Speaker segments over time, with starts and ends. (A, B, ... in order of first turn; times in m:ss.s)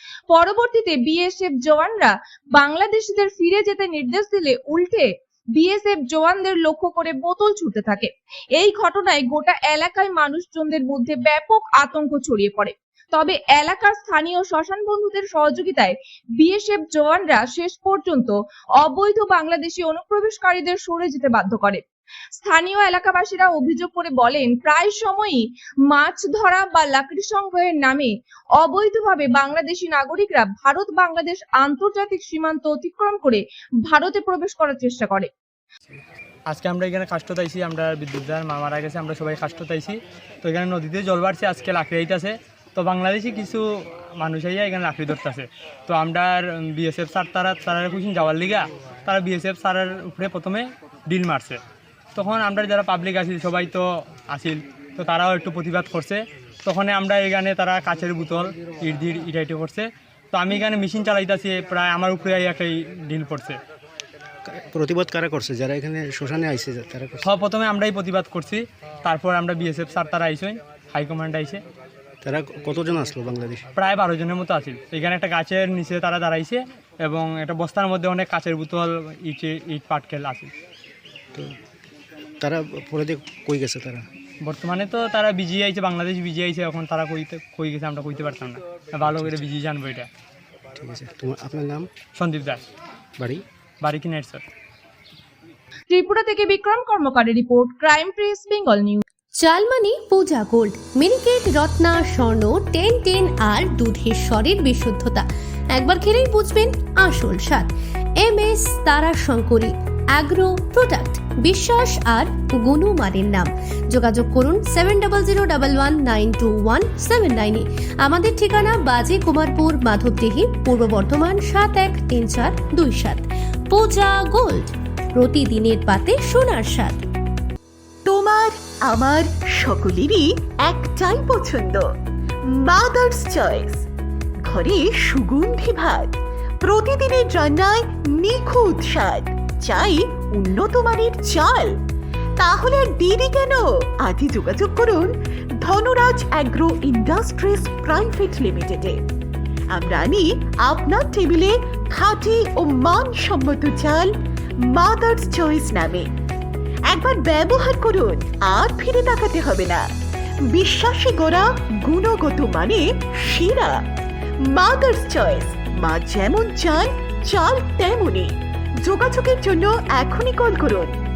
0:00.3-0:21.8 A
0:22.4-0:35.3 A
0:36.5-0:43.6 B
0:44.2-0:51.6 B
0:52.2-1:03.6 B
1:04.5-1:07.3 C
1:07.2-1:11.6 B
1:12.2-1:13.6 C
1:13.8-1:20.5 B
1:22.4-1:24.1 C
1:24.4-1:30.1 B
1:29.0-1:29.4 C
1:30.8-1:31.9 C
1:32.2-1:32.6 B
1:33.8-1:34.4 B
1:35.9-1:39.0 A
1:39.4-2:07.0 D
2:08.0-2:11.9 E
2:12.6-2:13.8 E
2:14.5-2:21.7 E
2:22.4-2:25.1 E
2:25.6-2:29.0 E
2:29.7-2:34.1 E
2:34.6-2:36.1 E
2:36.9-2:39.8 E
2:40.5-2:43.8 E
2:44.4-2:51.0 E